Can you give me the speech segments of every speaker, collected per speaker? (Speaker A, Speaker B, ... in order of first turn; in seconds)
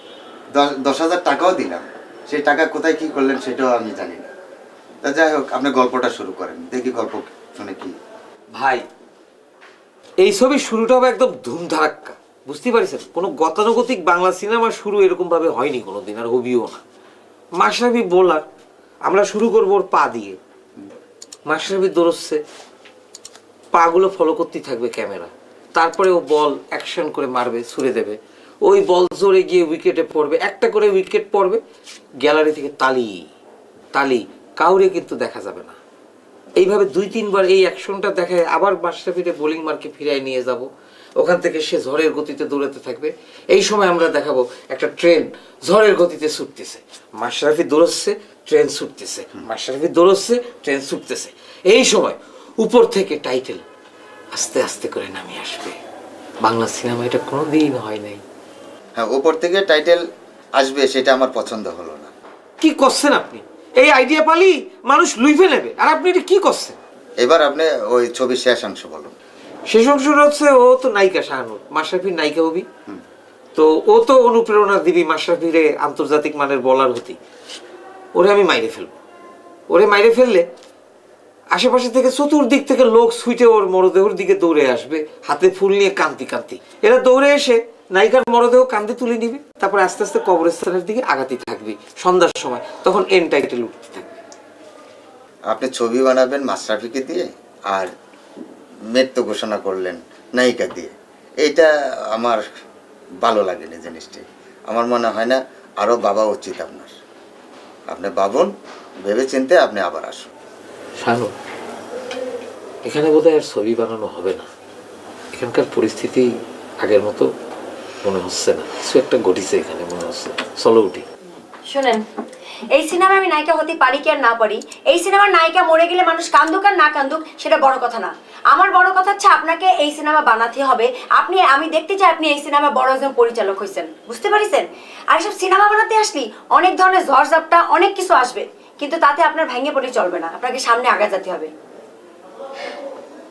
Speaker A: 0.5-4.3, 5.0-7.9, 59.0-60.0, 60.6-62.1, 67.2-69.1, 95.5-97.9, 98.9-102.4, 103.2-106.9, 107.9-108.5, 109.0-110.3
Speaker B: 8.5-8.9, 10.2-16.8, 17.6-18.4, 19.1-20.4, 21.5-22.4, 23.7-31.6, 32.2-33.3, 33.9-35.8, 36.6-53.6, 54.3-55.8, 56.4-58.2, 62.6-66.8, 69.7-72.7, 73.5-77.2, 78.2-79.0, 79.7-80.5, 81.5-94.1, 111.0-111.3, 112.8-114.5, 115.3-117.3, 118.0-121.0
Speaker C: 121.7-122.0, 122.7-141.5